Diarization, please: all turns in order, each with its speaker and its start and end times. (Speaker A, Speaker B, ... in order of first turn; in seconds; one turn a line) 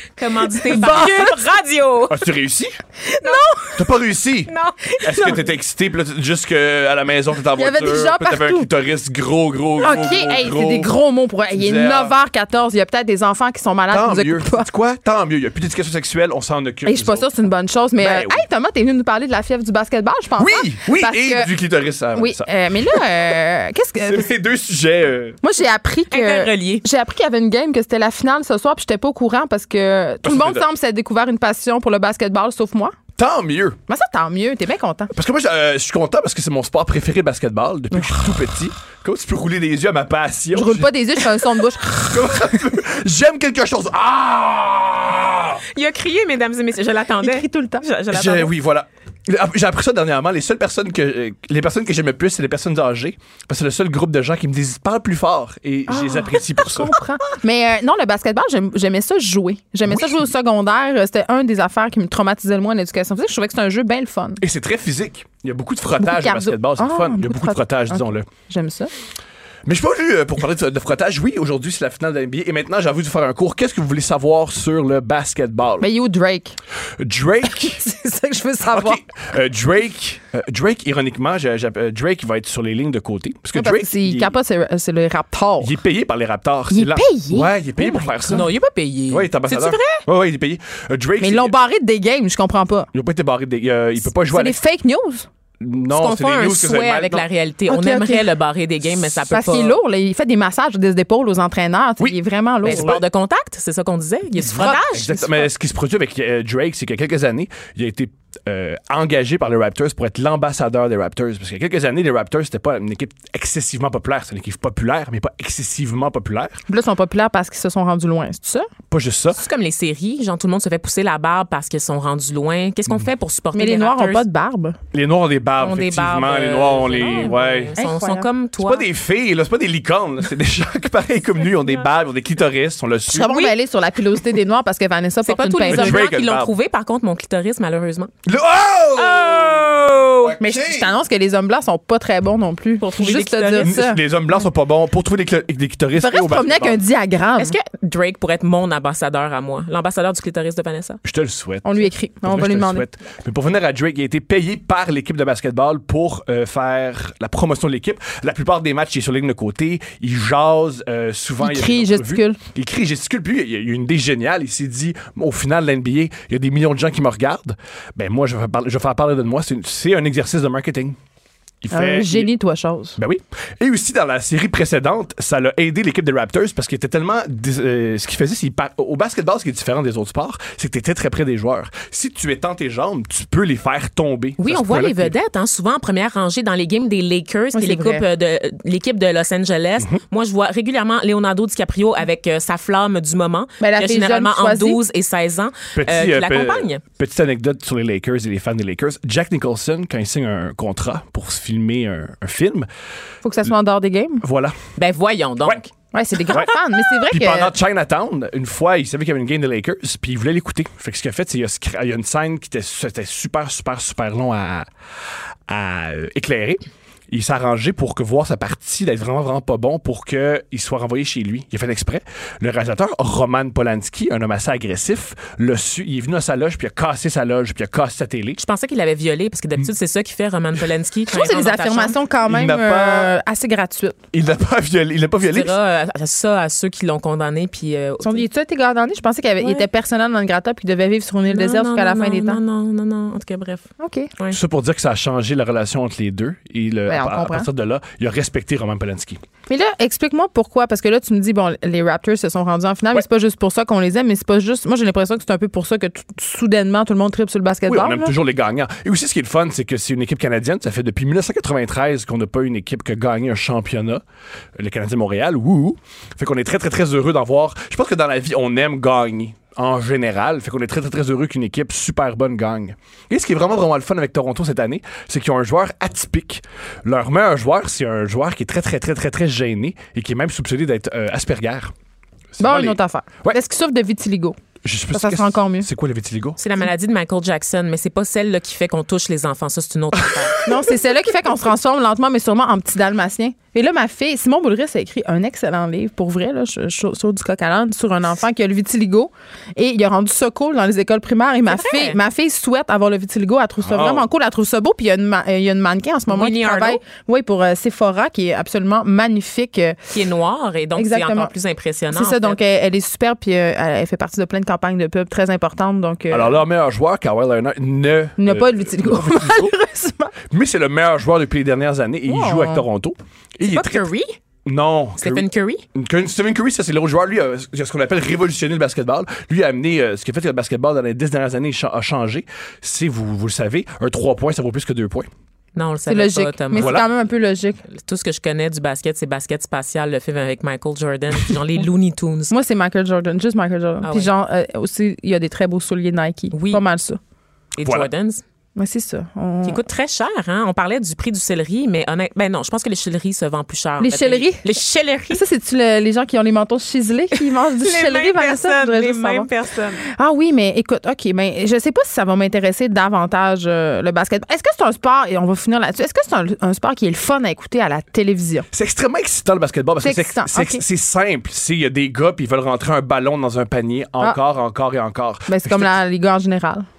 Speaker A: 0.1-2.2
Speaker B: 0.7-1.4
Speaker C: 0.7-1.3
Speaker C: 2.1-2.8
Speaker B: 3.0-3.8
Speaker C: 3.8-10.9
Speaker A: 4.5-5.0
Speaker B: 5.1-5.4
Speaker B: 7.5-8.7
Speaker B: 9.8-14.7
Speaker C: 11.5-12.1
Speaker C: 13.9-17.3
Speaker B: 16.8-21.5
Speaker C: 18.0-18.4
Speaker C: 20.4-23.4
Speaker B: 22.1-24.3
Speaker C: 24.0-25.4
Speaker B: 25.4-33.0
Speaker A: 26.1-26.8
Speaker C: 30.2-30.6
Speaker C: 33.2-33.8
Speaker B: 33.9-35.1
Speaker C: 35.1-40.9
Speaker B: 40.5-42.4
Speaker C: 42.1-45.6
Speaker A: 45.7-48.5
Speaker B: 47.2-47.8
Speaker C: 48.1-56.9
Speaker B: 55.9-64.4
Speaker C: 59.9-60.3
Speaker C: 64.4-68.3
Speaker B: 66.0-68.9
Speaker C: 69.7-75.9
Speaker B: 75.8-76.6
Speaker C: 77.0-77.8
Speaker B: 77.4-79.0
Speaker C: 78.7-84.3
Speaker B: 83.5-85.8
Speaker C: 85.6-88.5
Speaker B: 86.7-88.5
Speaker A: 88.3-90.0
Speaker C: 89.1-91.5
Speaker B: 91.2-92.9
Speaker C: 92.9-94.6
Speaker B: 94.2-95.3
Speaker C: 95.6-97.3
Speaker A: 95.9-99.8
Speaker B: 97.7-98.3
Speaker B: 99.3-103.0
Speaker C: 102.0-103.0
Speaker A: 102.6-105.4
Speaker C: 104.4-116.6
Speaker B: 104.5-104.8
Speaker B: 116.7-118.7
Speaker C: 118.9-119.4
Speaker A: 119.3-124.2
Speaker B: 123.5-124.8
Speaker C: 124.9-127.7
Speaker A: 125.6-128.8
Speaker B: 127.8-128.3
Speaker C: 128.6-133.4
Speaker B: 133.1-136.0
Speaker A: 133.2-133.5
Speaker A: 135.2-138.1
Speaker C: 135.6-136.5
Speaker C: 138.2-140.9
Speaker A: 139.0-140.4
Speaker B: 140.4-144.0
Speaker A: 142.8-143.7
Speaker C: 143.6-146.8
Speaker B: 145.9-147.6
Speaker A: 147.4-151.0
Speaker C: 151.0-171.0
Speaker B: 151.6-152.9
Speaker B: 161.4-162.4
Speaker C: 171.6-172.3
Speaker B: 171.7-173.0
Speaker C: 173.0-185.2
Speaker A: 184.4-196.8
Speaker B: 187.5-188.0
Speaker B: 193.6-194.8
Speaker C: 195.7-202.7
Speaker B: 203.2-204.2
Speaker C: 204.2-204.6
Speaker A: 204.8-205.7
Speaker B: 205.9-207.5
Speaker C: 206.3-214.7
Speaker C: 215.5-228.4
Speaker A: 228.4-232.0
Speaker B: 231.1-234.0
Speaker C: 232.2-233.1
Speaker C: 234.1-235.6
Speaker A: 235.3-238.2
Speaker B: 238.0-242.4
Speaker A: 241.3-244.4
Speaker B: 243.8-244.1
Speaker C: 244.3-249.2
Speaker B: 246.9-247.5
Speaker B: 249.5-258.1
Speaker C: 257.7-264.0
Speaker C: 264.6-281.7
Speaker C: 282.4-283.4
Speaker B: 282.4-284.4
Speaker C: 284.6-286.4
Speaker B: 284.9-285.7
Speaker A: 286.4-290.4
Speaker C: 289.9-290.6
Speaker B: 290.4-309.9
Speaker A: 301.5-302.0
Speaker C: 303.6-304.1
Speaker A: 306.1-306.8
Speaker A: 309.9-312.4
Speaker B: 310.8-311.3
Speaker B: 311.9-316.4
Speaker C: 316.1-319.5
Speaker B: 318.2-320.1
Speaker C: 320.3-323.9
Speaker B: 322.1-322.6
Speaker A: 323.5-324.2
Speaker C: 324.4-335.1
Speaker A: 325.0-325.6
Speaker A: 335.5-336.8
Speaker B: 335.9-337.6
Speaker C: 336.5-336.9
Speaker A: 337.7-342.3
Speaker B: 342.3-347.0
Speaker A: 343.8-344.1
Speaker A: 346.3-346.6
Speaker A: 347.5-348.2
Speaker B: 348.6-349.6
Speaker A: 349.4-355.2
Speaker B: 353.8-354.4
Speaker B: 355.1-359.3
Speaker A: 357.1-359.9
Speaker B: 359.8-368.5
Speaker C: 368.5-375.8
Speaker B: 369.8-370.6
Speaker B: 375.3-376.6